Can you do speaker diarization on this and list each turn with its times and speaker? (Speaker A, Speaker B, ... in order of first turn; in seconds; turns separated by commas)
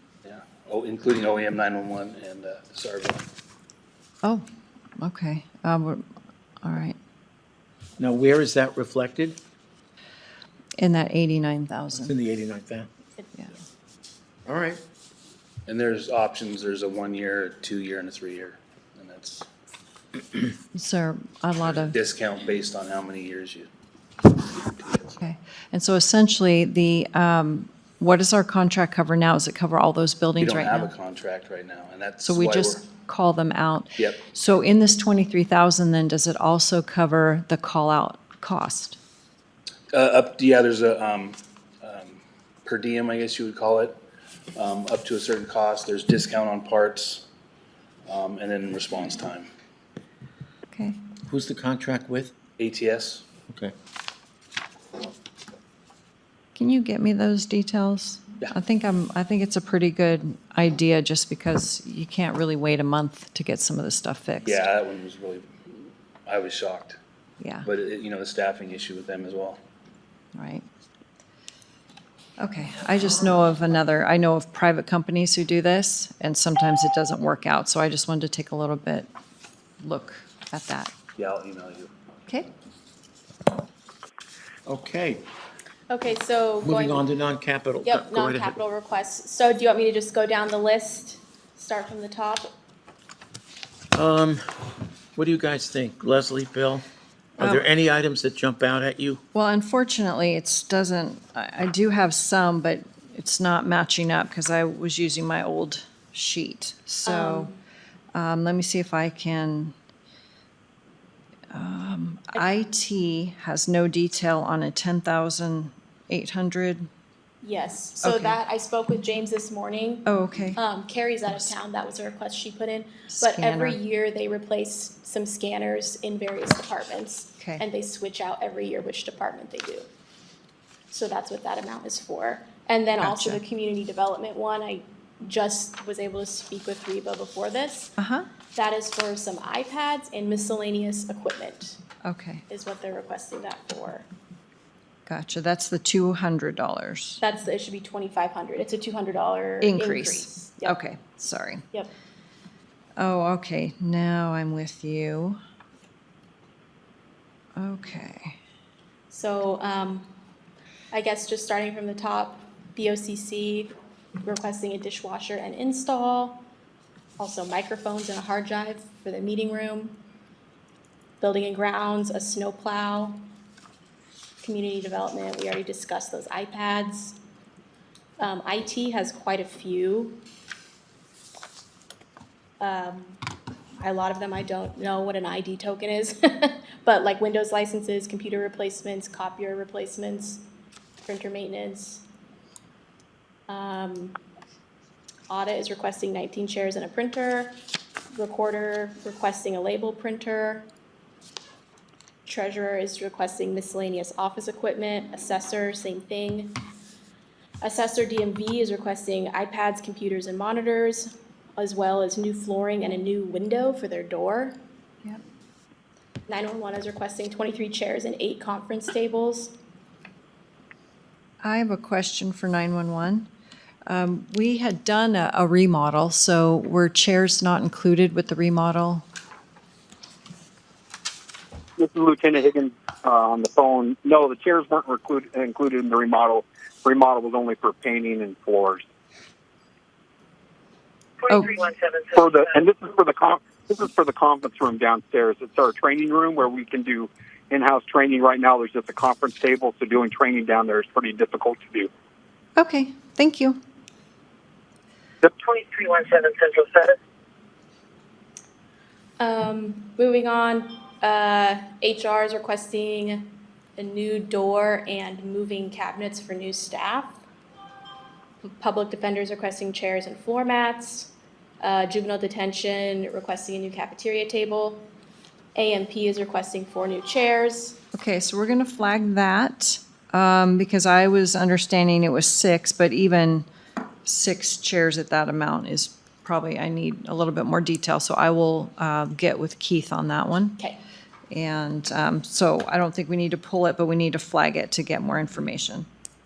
Speaker A: 0.2-3.3, Speaker B: 5.0-6.0, Speaker B: 6.6-7.0, Speaker C: 8.0-9.4, Speaker B: 10.8-12.1, Speaker C: 11.9-12.9, Speaker D: 13.2-13.6, Speaker C: 14.4-14.8, Speaker A: 15.7-19.5, Speaker B: 20.7-21.9, Speaker A: 21.8-23.7, Speaker A: 24.5-25.2, Speaker B: 25.2-30.9, Speaker A: 30.4-32.8, Speaker B: 32.2-39.0, Speaker A: 39.9-44.0, Speaker A: 44.5-47.2, Speaker A: 48.1-49.5, Speaker B: 50.7-51.0, Speaker C: 51.3-52.3, Speaker A: 52.6-53.2, Speaker B: 56.5-64.6, Speaker A: 64.4-67.0, Speaker B: 67.4-67.7, Speaker A: 67.6-69.6, Speaker B: 70.3-70.7, Speaker B: 72.4-79.1, Speaker B: 79.8-80.9, Speaker A: 81.2-81.9, Speaker C: 84.7-85.2, Speaker D: 85.9-87.0, Speaker C: 86.6-88.6, Speaker D: 87.8-92.5, Speaker C: 93.9-94.4, Speaker C: 95.1-96.8, Speaker C: 97.4-99.2, Speaker B: 99.3-107.5, Speaker D: 107.0-107.6, Speaker B: 108.1-109.7, Speaker B: 111.5-116.9, Speaker D: 117.4-129.9, Speaker B: 118.0-118.4, Speaker B: 120.0-120.6, Speaker B: 123.1-123.8, Speaker D: 130.9-137.9, Speaker B: 133.0-133.4, Speaker B: 138.0-138.3, Speaker D: 138.5-141.8, Speaker B: 142.0-142.4, Speaker D: 142.5-144.1, Speaker B: 145.1-147.2, Speaker D: 147.2-150.8, Speaker B: 149.6-151.6, Speaker B: 153.0-155.4, Speaker B: 157.6-158.4, Speaker D: 159.1-160.1, Speaker D: 160.9-166.4, Speaker D: 167.2-170.0, Speaker D: 171.2-173.2, Speaker D: 174.4-177.2, Speaker D: 178.2-180.2, Speaker D: 182.6-183.2, Speaker D: 183.8-190.4, Speaker D: 191.1-192.0, Speaker D: 193.5-194.2, Speaker D: 195.3-197.6, Speaker D: 198.1-200.7, Speaker D: 202.2-206.6, Speaker D: 207.6-214.6, Speaker D: 216.3-219.5, Speaker B: 221.4-223.3, Speaker B: 223.8-229.1, Speaker E: 231.8-238.8, Speaker F: 241.2-242.0, Speaker B: 241.3-241.6, Speaker E: 242.1-251.9, Speaker B: 252.6-253.6, Speaker F: 255.4-256.9, Speaker D: 259.2-267.2, Speaker D: 268.4-271.1, Speaker D: 271.6-274.9, Speaker D: 275.5-277.8, Speaker B: 277.9-283.5, Speaker B: 284.0-290.6, Speaker B: 291.3-295.9